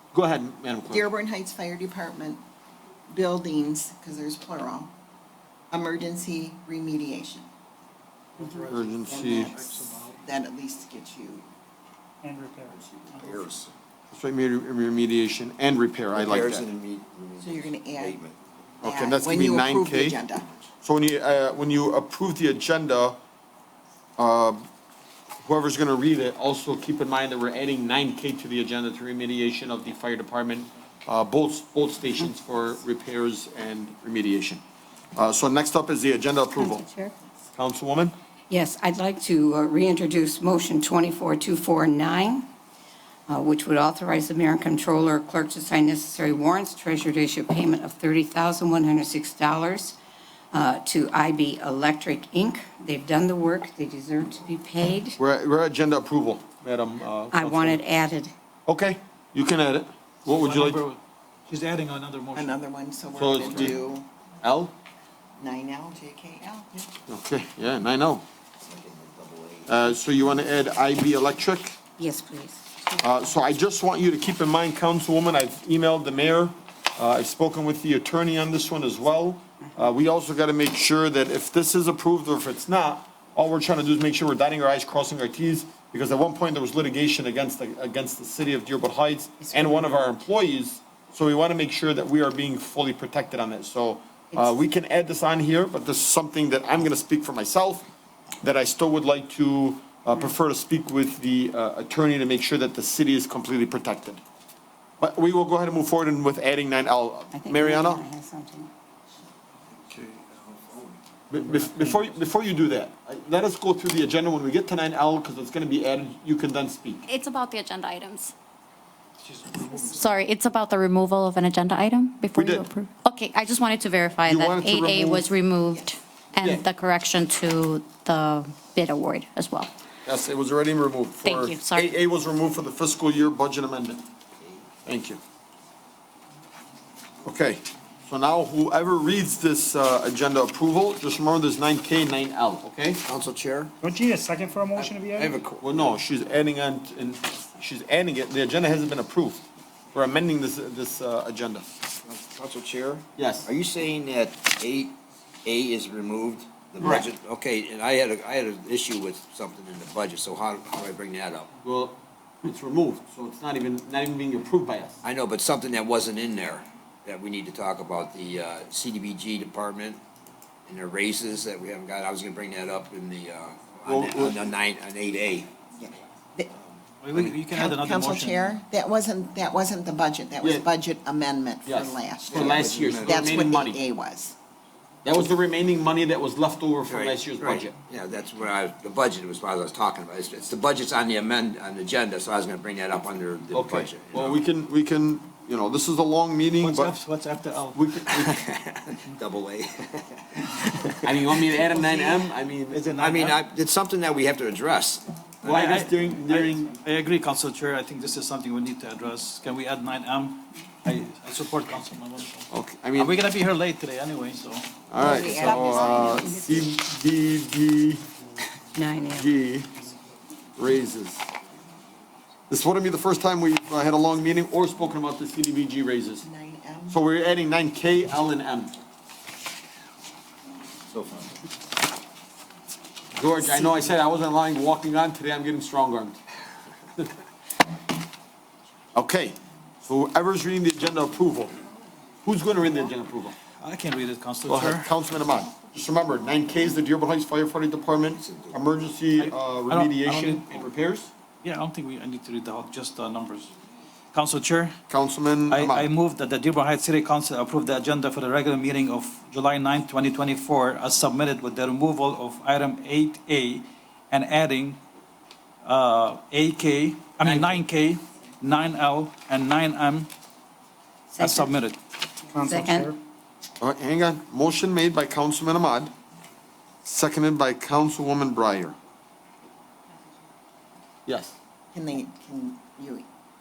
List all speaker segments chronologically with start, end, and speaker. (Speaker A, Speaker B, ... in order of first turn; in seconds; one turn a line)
Speaker A: 0.1-1.1
Speaker B: 0.9-2.4
Speaker B: 3.1-4.9
Speaker B: 5.7-7.5
Speaker C: 8.4-10.2
Speaker A: 8.7-9.5
Speaker B: 9.1-11.4
Speaker D: 12.7-13.7
Speaker A: 14.1-16.6
Speaker D: 16.1-18.4
Speaker B: 17.4-18.2
Speaker A: 18.8-20.2
Speaker B: 18.8-20.4
Speaker A: 20.8-23.2
Speaker A: 24.2-24.6
Speaker A: 25.4-34.6
Speaker A: 35.1-36.8
Speaker E: 36.5-37.1
Speaker A: 37.5-38.1
Speaker E: 38.5-42.5
Speaker E: 43.3-50.0
Speaker E: 50.5-55.2
Speaker A: 55.2-57.9
Speaker E: 57.3-58.3
Speaker A: 58.6-60.8
Speaker C: 60.3-62.5
Speaker B: 62.3-64.1
Speaker A: 63.1-63.8
Speaker A: 64.4-64.7
Speaker B: 65.4-66.9
Speaker A: 67.1-68.2
Speaker D: 68.6-69.8
Speaker A: 69.7-71.8
Speaker E: 72.0-72.6
Speaker A: 73.0-97.8
Speaker A: 98.4-104.2
Speaker A: 105.0-108.0
Speaker E: 107.3-108.7
Speaker A: 111.3-117.0
Speaker C: 111.3-112.1
Speaker F: 117.1-118.3
Speaker C: 119.2-120.1
Speaker F: 119.7-129.7
Speaker A: 122.3-122.7
Speaker A: 124.2-125.3
Speaker A: 130.0-134.0
Speaker F: 131.2-131.9
Speaker A: 134.8-135.2
Speaker A: 137.2-143.0
Speaker D: 143.1-143.7
Speaker G: 143.8-145.3
Speaker F: 144.2-145.2
Speaker D: 144.7-145.6
Speaker A: 145.6-151.6
Speaker D: 152.0-161.5
Speaker A: 153.1-153.5
Speaker A: 156.8-157.1
Speaker A: 161.6-165.0
Speaker D: 165.0-170.0
Speaker D: 170.7-175.5
Speaker A: 173.9-174.4
Speaker B: 175.8-176.5
Speaker C: 177.0-178.5
Speaker B: 177.2-184.3
Speaker A: 181.7-183.8
Speaker D: 182.2-183.4
Speaker A: 185.0-187.8
Speaker D: 186.9-194.4
Speaker A: 193.5-196.9
Speaker C: 196.6-197.8
Speaker A: 197.7-198.3
Speaker D: 198.2-201.2
Speaker A: 201.0-202.9
Speaker C: 202.7-203.4
Speaker D: 202.9-205.7
Speaker A: 205.4-206.8
Speaker C: 205.5-216.1
Speaker A: 212.5-213.2
Speaker A: 214.9-218.0
Speaker B: 215.0-216.7
Speaker E: 218.7-219.3
Speaker A: 219.1-219.7
Speaker A: 220.6-221.3
Speaker A: 222.5-226.2
Speaker B: 226.2-227.0
Speaker A: 226.9-228.7
Speaker D: 230.9-231.2
Speaker A: 233.1-236.2
Speaker A: 238.9-241.5
Speaker A: 242.2-243.3
Speaker C: 243.6-244.9
Speaker A: 244.5-251.1
Speaker D: 248.1-248.6
Speaker C: 249.2-250.7
Speaker C: 251.4-253.5
Speaker C: 254.1-254.8
Speaker A: 254.9-255.9
Speaker C: 255.5-264.8
Speaker C: 265.6-270.1
Speaker A: 267.3-267.6
Speaker E: 271.1-271.5
Speaker C: 271.2-271.8
Speaker G: 272.3-273.0
Speaker E: 272.4-272.9
Speaker A: 273.6-275.9
Speaker A: 276.8-278.8
Speaker A: 281.1-281.4
Speaker B: 281.7-283.1